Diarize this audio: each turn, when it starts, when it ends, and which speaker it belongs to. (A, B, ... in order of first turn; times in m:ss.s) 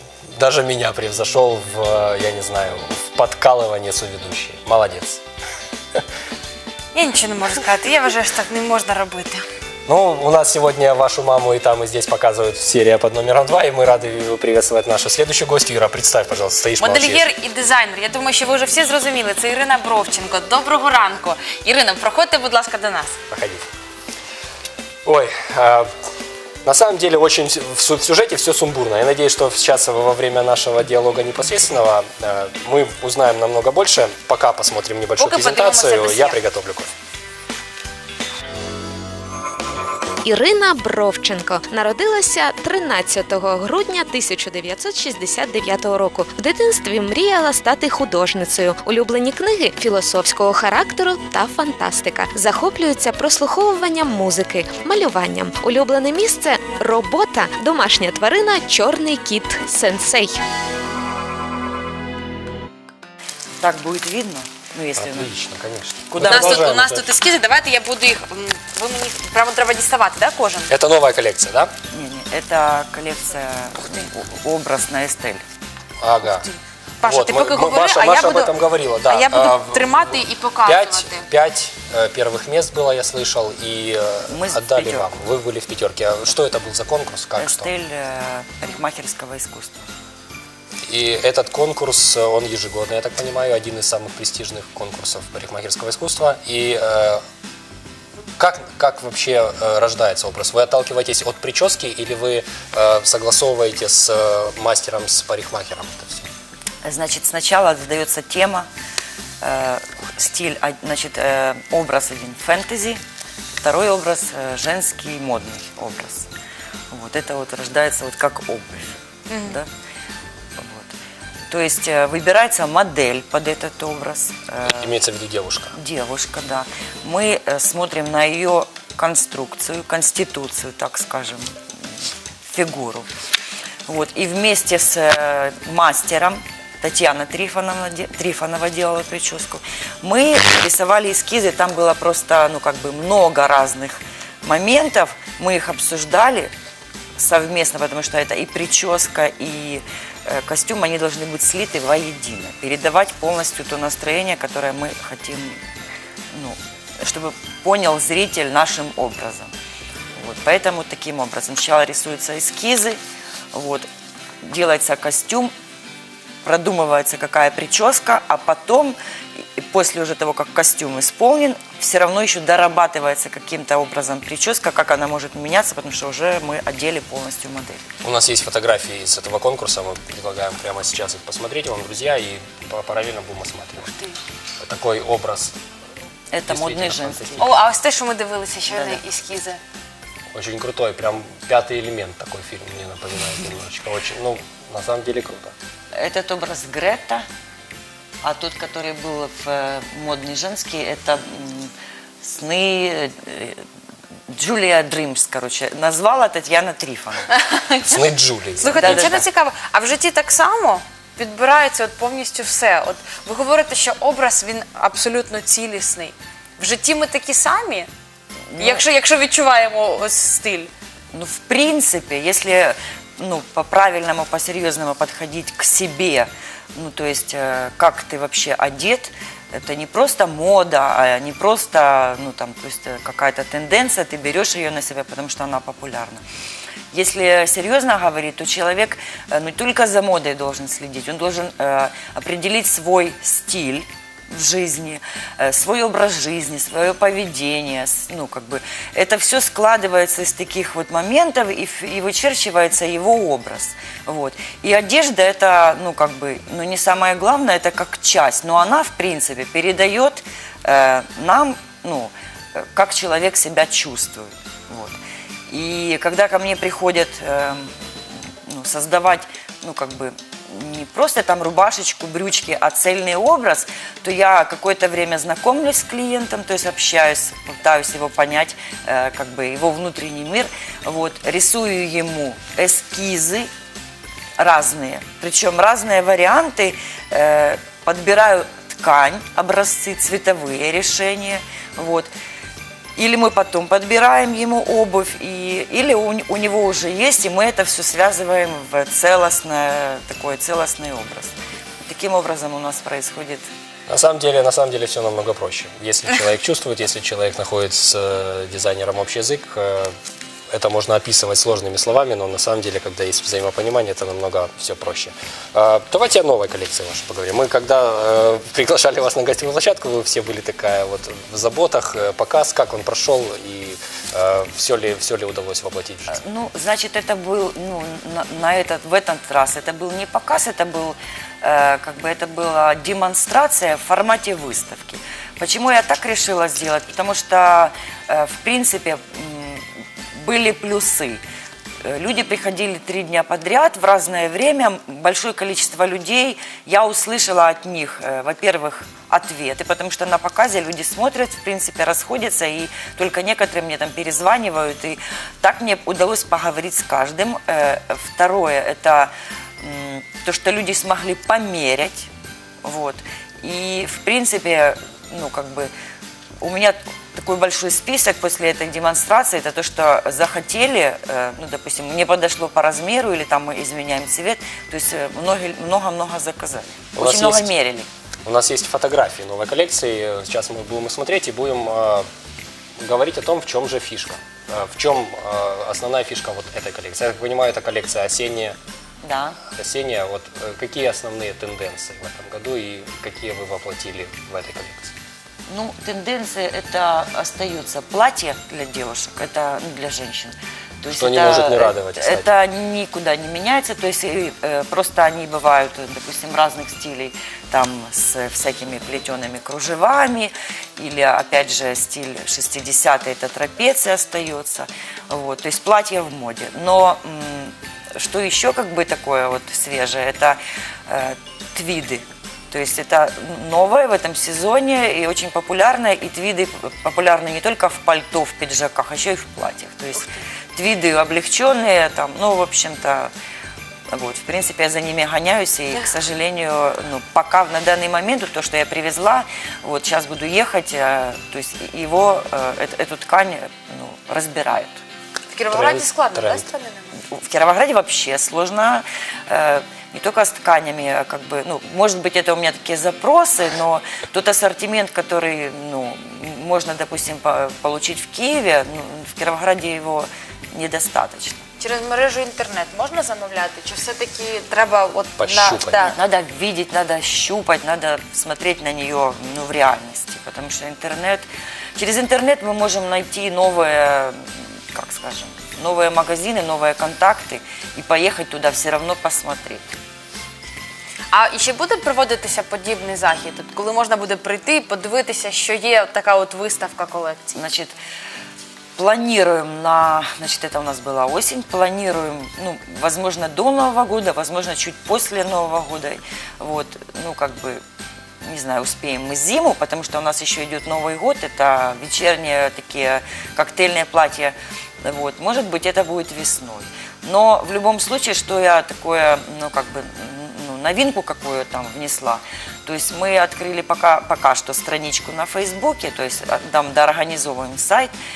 0:00.4-0:05.2 A
0:06.9-0:09.4 B
0:09.9-0:17.3 A
0:16.8-0:23.2 B
0:23.3-0:23.6 A
0:25.0-0:25.9 A
0:26.6-0:36.9 A
0:35.2-0:36.4 B
0:40.2-1:00.4 C
1:03.6-1:05.3 D
1:05.0-1:07.0 A
1:06.2-1:06.7 D
1:06.2-1:10.7 B
1:10.7-1:11.7 A
1:11.9-1:15.4 D
1:16.0-1:16.5 A
1:16.3-1:18.5 B
1:17.0-1:27.7 A
1:19.0-1:21.2 B
1:24.3-1:25.2 D
1:27.4-1:29.9 D
1:30.9-1:37.2 A
1:38.4-1:46.3 A
1:46.8-1:48.7 D
1:49.4-1:53.0 D
1:53.6-1:56.3 D
1:56.9-1:59.7 D
1:59.3-1:59.6 B
2:00.6-2:01.0 D
2:01.5-2:04.9 D
2:04.6-2:05.8 A
2:05.7-2:11.5 D
2:12.4-2:13.1 D
2:13.9-2:26.5 D
2:27.2-2:35.6 D
2:36.3-2:39.5 D
2:40.2-2:43.0 D
2:43.5-2:43.9 D
2:44.4-2:45.5 D
2:46.4-2:57.8 D
2:58.0-3:04.0 A
3:04.6-3:05.5 A
3:06.3-3:07.5 D
3:06.5-3:07.5 A
3:07.4-3:09.6 B
3:08.7-3:09.0 D
3:10.3-3:15.5 A
3:15.9-3:17.2 D
3:18.2-3:21.7 D
3:22.2-3:23.6 D
3:24.3-3:27.3 D
3:27.3-3:28.0 B
3:27.9-3:29.2 A
3:28.6-3:37.9 B
3:28.7-3:29.2 D
3:38.5-3:38.8 D
3:38.6-3:40.7 B
3:41.1-3:56.2 D
3:56.9-4:27.7 D
4:28.4-4:43.5 D
4:44.4-4:52.1 D
4:53.0-5:03.5 D
5:03.9-5:09.9 A
5:10.5-5:26.1 A
5:26.1-5:41.2 D
5:41.8-6:02.1 D
6:02.6-6:05.7 D
6:06.4-6:17.9 D
6:16.9-6:17.5 A
6:18.2-6:22.0 A
6:22.8-6:28.5 A
6:29.0-6:29.4 D
6:29.5-6:34.9 A
6:35.5-7:13.1 D
6:40.9-6:42.3 A
7:13.9-7:24.8 D
7:25.3-7:26.9 B
7:25.5-7:26.5 A
7:27.0-7:41.4 D
7:41.6-7:46.0 B
7:45.2-7:45.8 A
7:45.8-7:59.8 D
8:01.1-8:07.3 B
8:07.3-8:07.7 D
8:08.8-8:17.6 D
8:18.2-8:37.9 D